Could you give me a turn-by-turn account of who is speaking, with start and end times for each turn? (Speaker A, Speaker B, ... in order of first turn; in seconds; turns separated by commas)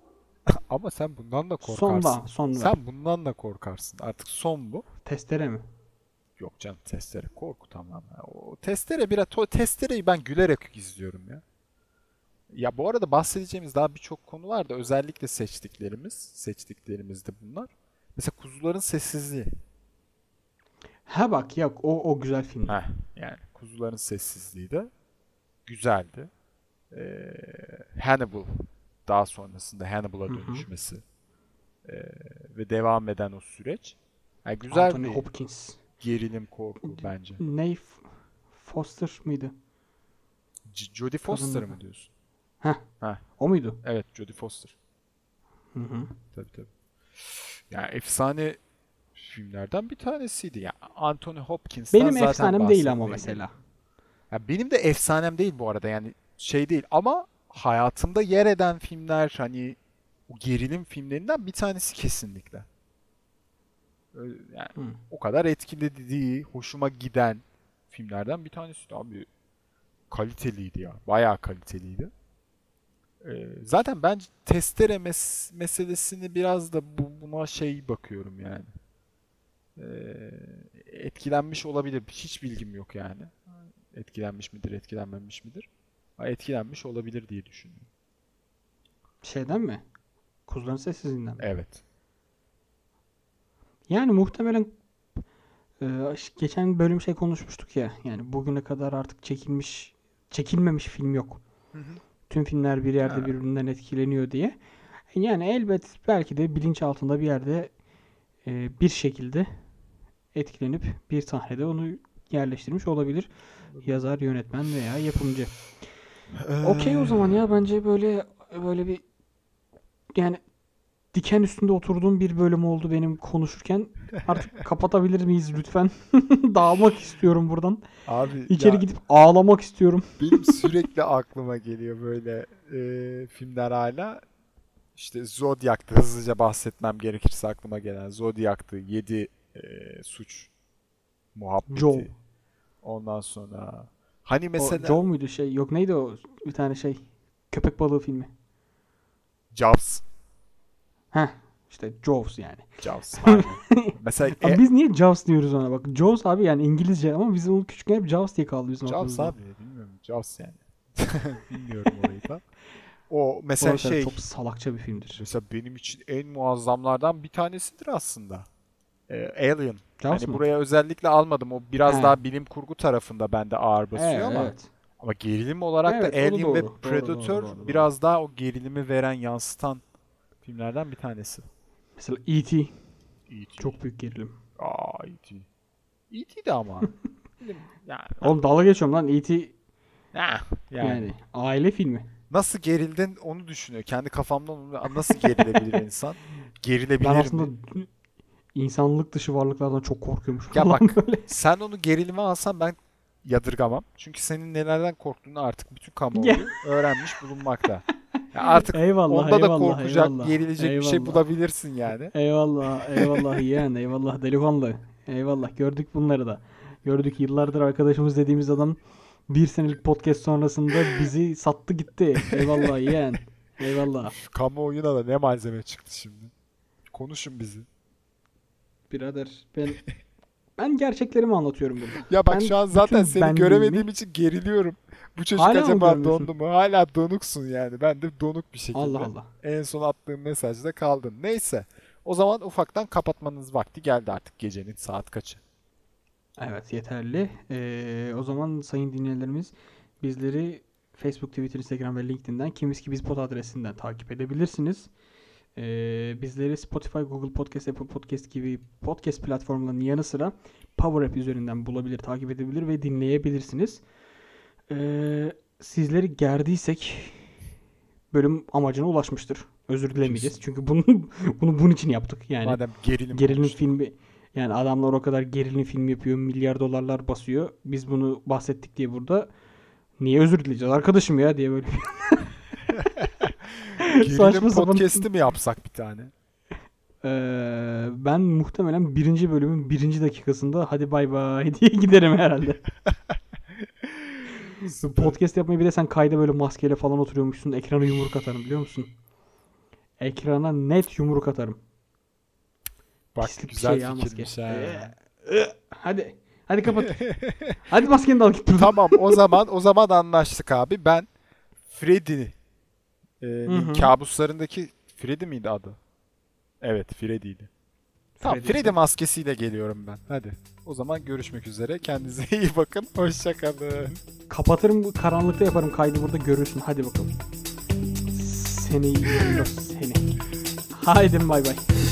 Speaker A: 0.5-4.8, Speaker B: 1.6-2.8, Speaker B: 5.0-5.7, Speaker A: 6.4-11.4, Speaker A: 12.5-19.5, Speaker B: 21.1-22.8, Speaker A: 22.7-24.9, Speaker A: 25.7-26.3, Speaker A: 26.9-31.0, Speaker B: 30.3-30.7, Speaker A: 31.9-35.2, Speaker B: 34.7-35.8, Speaker A: 36.0-37.4, Speaker B: 36.8-39.5, Speaker A: 40.7-42.1, Speaker B: 41.3-41.8, Speaker B: 43.4-43.8, Speaker A: 43.8-44.8, Speaker B: 45.7-46.1, Speaker A: 46.3-46.7, Speaker A: 47.2-48.6, Speaker A: 49.1-53.4, Speaker B: 51.9-53.5, Speaker A: 54.3-62.7, Speaker A: 64.1-69.3, Speaker A: 70.1-72.1, Speaker A: 73.2-78.7, Speaker A: 79.8-85.7, Speaker A: 86.2-87.9, Speaker B: 89.2-89.8, Speaker B: 90.5-91.5, Speaker A: 91.4-91.8, Speaker B: 93.9-94.7, Speaker B: 95.8-101.4, Speaker A: 101.7-102.0, Speaker B: 102.3-104.6, Speaker A: 103.0-103.3, Speaker B: 105.1-107.7, Speaker B: 108.5-109.5, Speaker B: 110.3-113.3, Speaker A: 113.7-114.0, Speaker B: 113.8-115.6, Speaker A: 116.4-117.4, Speaker B: 116.6-119.0, Speaker B: 120.2-120.4, Speaker B: 121.1-127.8, Speaker A: 128.1-128.9, Speaker B: 128.5-130.6, Speaker A: 130.2-134.2, Speaker A: 134.9-140.5, Speaker A: 141.3-142.1, Speaker B: 141.7-142.1, Speaker A: 142.8-145.0, Speaker B: 144.6-148.3, Speaker A: 149.5-150.1, Speaker B: 151.1-159.4, Speaker A: 152.8-154.6, Speaker A: 158.9-162.4, Speaker A: 163.1-164.2, Speaker B: 163.6-165.2, Speaker A: 165.2-168.5, Speaker A: 169.1-179.8, Speaker B: 170.0-170.4, Speaker B: 171.9-172.2, Speaker B: 173.9-174.7, Speaker B: 175.9-177.9, Speaker A: 180.4-181.4, Speaker B: 182.0-182.7, Speaker A: 183.3-183.8, Speaker B: 183.6-184.4, Speaker A: 184.6-185.5, Speaker A: 186.1-188.3, Speaker B: 188.2-189.5, Speaker A: 190.1-191.1, Speaker B: 190.8-192.1, Speaker A: 192.3-197.5, Speaker B: 197.0-197.9, Speaker B: 198.6-201.3, Speaker A: 200.5-212.1, Speaker B: 206.1-206.6, Speaker B: 208.7-211.2, Speaker B: 212.1-224.2, Speaker A: 212.9-213.4, Speaker A: 222.4-222.7, Speaker A: 224.1-226.3, Speaker A: 226.9-227.7, Speaker B: 228.9-229.8, Speaker B: 230.6-233.9, Speaker A: 232.0-245.4, Speaker B: 235.4-236.3, Speaker B: 238.7-239.3, Speaker B: 246.4-254.9, Speaker B: 255.6-263.8, Speaker B: 264.7-267.3, Speaker B: 268.1-272.6, Speaker A: 270.0-270.4, Speaker A: 272.4-273.7, Speaker B: 273.1-279.3, Speaker B: 280.0-282.4, Speaker A: 283.0-286.1, Speaker B: 283.8-285.1, Speaker B: 287.0-292.6, Speaker A: 293.8-295.2, Speaker B: 294.6-298.9, Speaker B: 300.0-301.6, Speaker A: 303.1-304.9, Speaker B: 303.2-307.0, Speaker A: 306.7-307.6, Speaker B: 307.7-309.2, Speaker A: 308.6-311.1, Speaker A: 311.7-312.3, Speaker A: 313.2-315.8, Speaker B: 313.5-313.9, Speaker A: 316.6-317.5, Speaker B: 318.2-318.8, Speaker A: 318.2-324.0, Speaker B: 324.3-327.1, Speaker B: 328.1-330.1, Speaker B: 330.7-331.7